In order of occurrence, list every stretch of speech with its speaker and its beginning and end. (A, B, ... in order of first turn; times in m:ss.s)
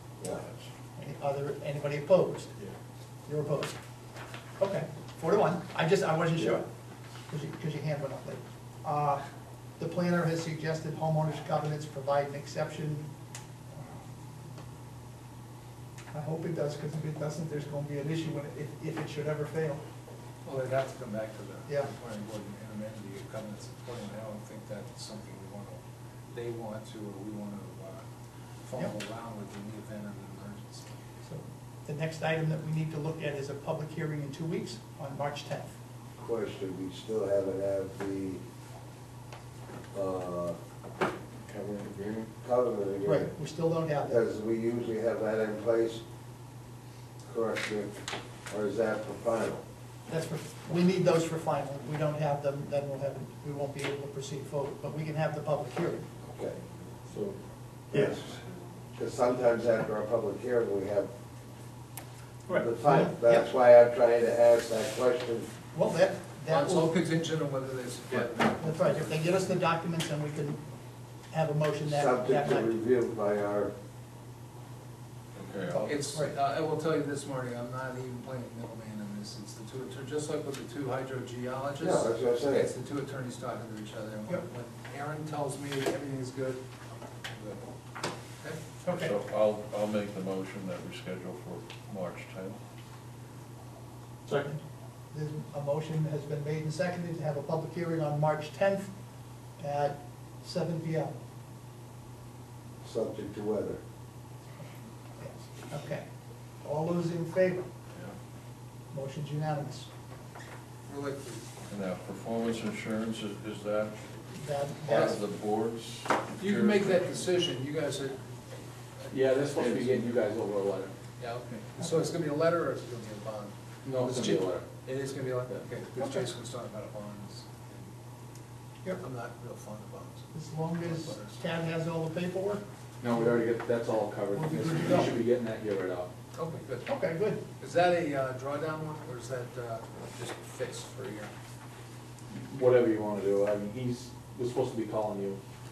0:00.4-0:00.7 A
0:01.0-0:02.5 B
0:03.3-0:03.7 B
0:04.6-0:06.6 B
0:07.3-0:09.2 B
0:09.8-0:13.0 B
0:13.7-0:14.0 B
0:16.1-0:19.8 B
0:20.4-0:28.0 C
0:28.6-0:30.9 C
0:31.2-0:35.7 B
0:36.2-0:38.4 D
0:39.9-0:40.6 D
0:41.5-0:43.3 D
0:43.0-0:44.2 B
0:44.0-0:46.0 D
0:47.2-0:49.6 D
0:50.1-0:56.0 B
0:56.3-0:56.6 D
0:57.9-0:58.3 D
0:59.0-1:01.1 D
1:02.5-1:03.4 B
1:02.5-1:05.5 D
1:05.7-1:06.9 B
1:06.5-1:09.5 C
1:08.6-1:10.6 B
1:11.3-1:12.7 B
1:11.8-1:13.7 D
1:15.3-1:16.0 A
1:15.7-1:16.3 B
1:15.8-1:27.7 C
1:21.8-1:22.7 D
1:28.8-1:29.1 B
1:28.9-1:32.6 A
1:35.1-1:38.9 B
1:39.6-1:41.1 B
1:42.8-1:43.8 D
1:45.2-1:46.0 B
1:46.6-1:47.7 B
1:48.9-1:49.9 B
1:50.8-1:51.4 C
1:51.7-1:53.9 A
1:54.3-1:55.2 B
1:54.8-1:57.1 A
1:56.4-1:58.3 C
1:59.1-2:00.9 E
1:59.5-2:00.0 C
2:01.2-2:07.9 C
2:03.8-2:04.6 E
2:06.0-2:06.3 B
2:09.0-2:11.4 C
2:10.3-2:12.6 B
2:13.0-2:16.1 E
2:14.3-2:15.2 B
2:16.3-2:16.9 C
2:16.8-2:17.4 B
2:17.6-2:21.3 C
2:22.4-2:25.4 E